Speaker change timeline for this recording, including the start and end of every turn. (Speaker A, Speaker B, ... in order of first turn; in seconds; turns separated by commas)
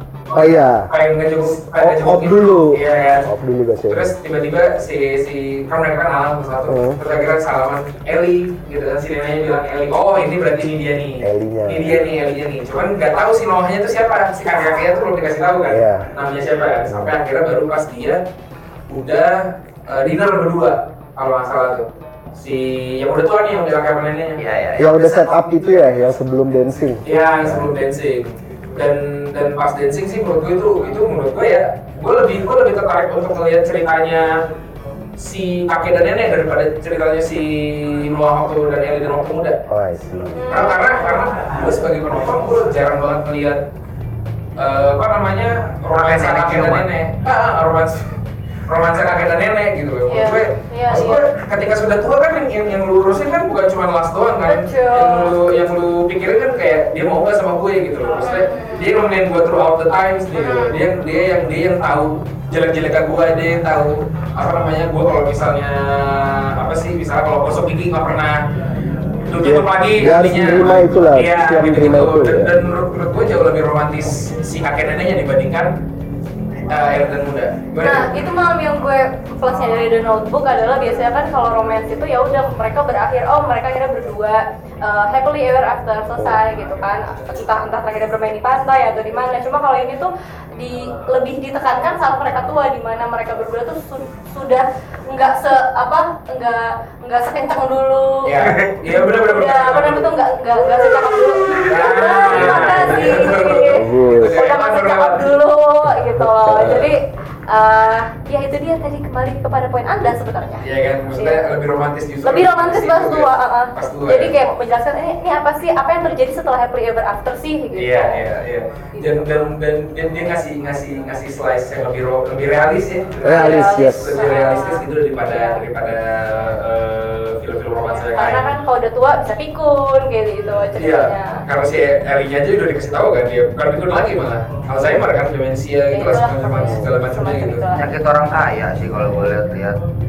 Speaker A: 0.3-3.2, Speaker B: 0.3-0.9, Speaker B: 1.8-4.1, Speaker A: 3.9-18.2, Speaker B: 6.7-7.0, Speaker B: 11.2-12.0, Speaker B: 15.7-16.1, Speaker A: 18.9-24.4, Speaker C: 24.4-25.2, Speaker B: 24.8-27.7, Speaker A: 27.1-34.4, Speaker A: 35.2-39.6, Speaker B: 39.7-40.6, Speaker D: 40.3-41.0, Speaker A: 40.5-43.6, Speaker A: 44.6-48.1, Speaker C: 45.9-46.9, Speaker A: 48.7-68.4, Speaker D: 50.1-51.3, Speaker D: 54.4-55.4, Speaker D: 58.2-58.9, Speaker D: 60.4-60.8, Speaker A: 69.3-75.8, Speaker B: 69.4-72.6, Speaker A: 76.7-78.1, Speaker D: 77.8-98.4, Speaker A: 98.2-100.1, Speaker C: 98.4-98.8, Speaker D: 98.9-111.5, Speaker A: 101.6-105.4, Speaker B: 102.3-104.5, Speaker B: 106.2-106.9, Speaker A: 110.6-114.4, Speaker D: 112.2-118.2, Speaker A: 117.8-128.5, Speaker D: 118.9-119.2, Speaker B: 123.2-124.2, Speaker D: 123.2-125.6, Speaker D: 128.1-131.4, Speaker A: 130.8-137.7, Speaker D: 135.9-138.0, Speaker B: 136.7-136.9, Speaker C: 137.8-139.8